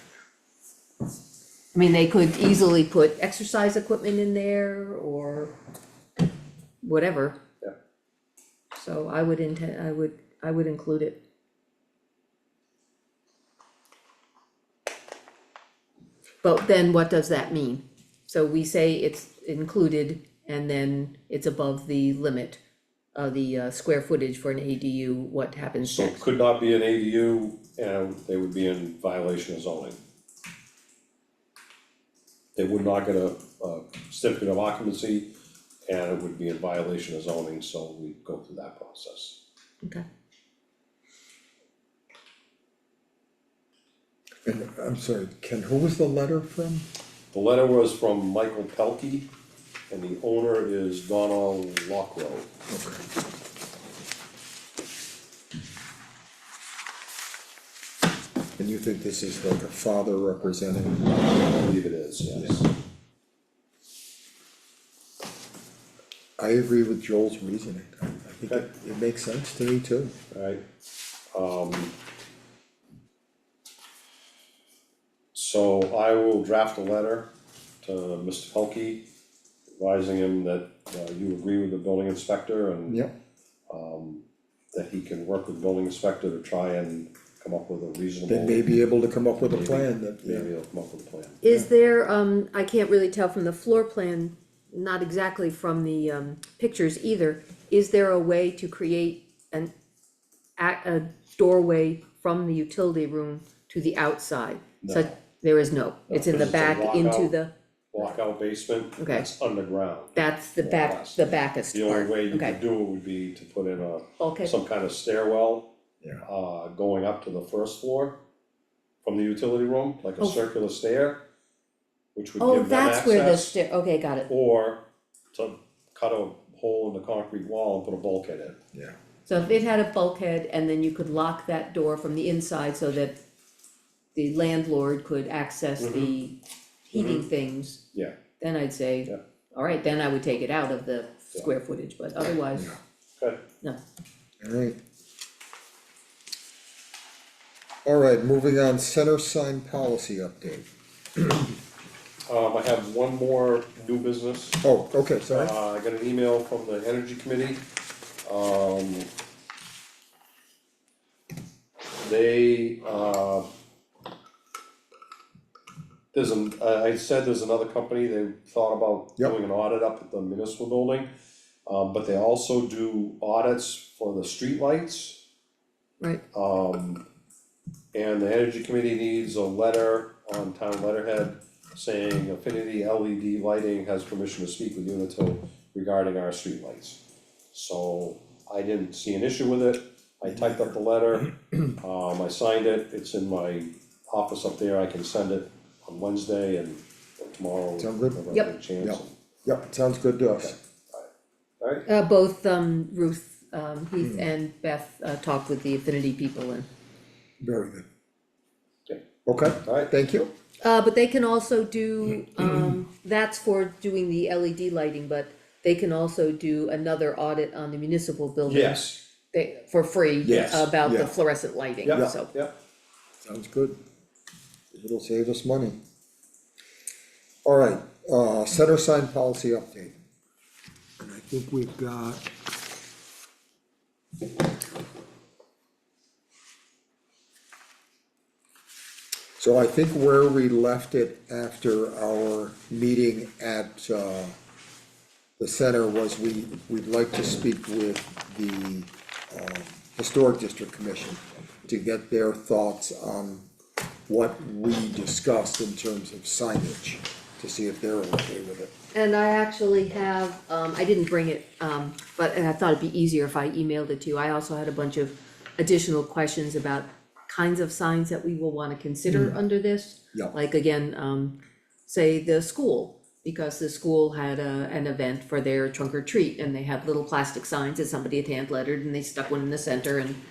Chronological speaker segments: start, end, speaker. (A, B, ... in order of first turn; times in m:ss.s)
0:01.7-0:05.5 A
0:06.8-0:07.4 A
0:08.7-0:11.2 A
0:16.4-0:22.6 A
0:23.1-0:26.2 A
0:25.8-0:30.0 B
0:32.6-0:35.3 B
0:35.8-0:39.4 B
0:44.4-0:46.9 C
0:47.3-0:49.3 B
0:49.9-0:52.5 B
0:52.7-0:53.0 C
0:58.6-1:01.4 C
1:01.5-1:02.7 B
1:02.3-1:02.6 C
1:06.4-1:10.2 C
1:10.3-1:10.6 B
1:11.3-1:11.9 B
1:15.3-1:17.3 B
1:17.8-1:19.0 B
1:19.8-1:23.0 B
1:22.9-1:23.1 C
1:23.7-1:28.6 B
1:28.3-1:30.5 C
1:29.5-1:31.4 B
1:31.4-1:39.7 A
1:40.6-1:47.5 A
1:44.8-1:45.1 B
1:46.1-1:47.3 B
1:47.9-1:55.7 B
1:49.0-1:49.3 A
1:50.1-1:52.6 A
1:54.2-1:54.5 A
1:56.2-1:58.2 B
1:59.0-2:01.2 B
2:02.1-2:03.5 B
2:02.4-2:04.3 A
2:04.3-2:08.6 B
2:09.2-2:13.2 A
2:14.1-2:17.8 A
2:15.8-2:16.2 B
2:16.9-2:17.2 B
2:18.4-2:22.8 A
2:24.4-2:24.8 C
2:27.8-2:30.6 C
2:31.2-2:31.4 C
2:32.3-2:34.6 B
2:34.6-2:35.5 C
2:35.3-2:37.6 B
2:38.2-2:39.1 B
2:42.0-2:43.5 B
2:46.1-2:51.1 B
2:51.6-2:55.2 B
2:56.3-2:57.0 B
2:57.9-3:07.0 B
3:07.5-3:19.1 B
3:10.3-3:10.6 C
3:17.8-3:20.6 C
3:20.4-3:21.1 B
3:21.8-3:26.7 A
3:27.4-3:27.8 C
3:29.2-3:30.3 C
3:29.6-3:29.9 B
3:30.6-3:42.3 A
3:38.4-3:39.0 B
3:40.2-3:41.1 C
3:40.2-3:40.7 B
3:41.8-3:42.5 B
3:43.2-3:43.8 C
3:44.7-3:45.8 C
3:47.4-3:50.0 C
3:51.0-3:52.3 C
3:59.4-4:04.3 C
4:05.4-4:13.5 C
4:14.1-4:18.7 C
4:18.9-4:40.2 A
4:29.1-4:29.4 C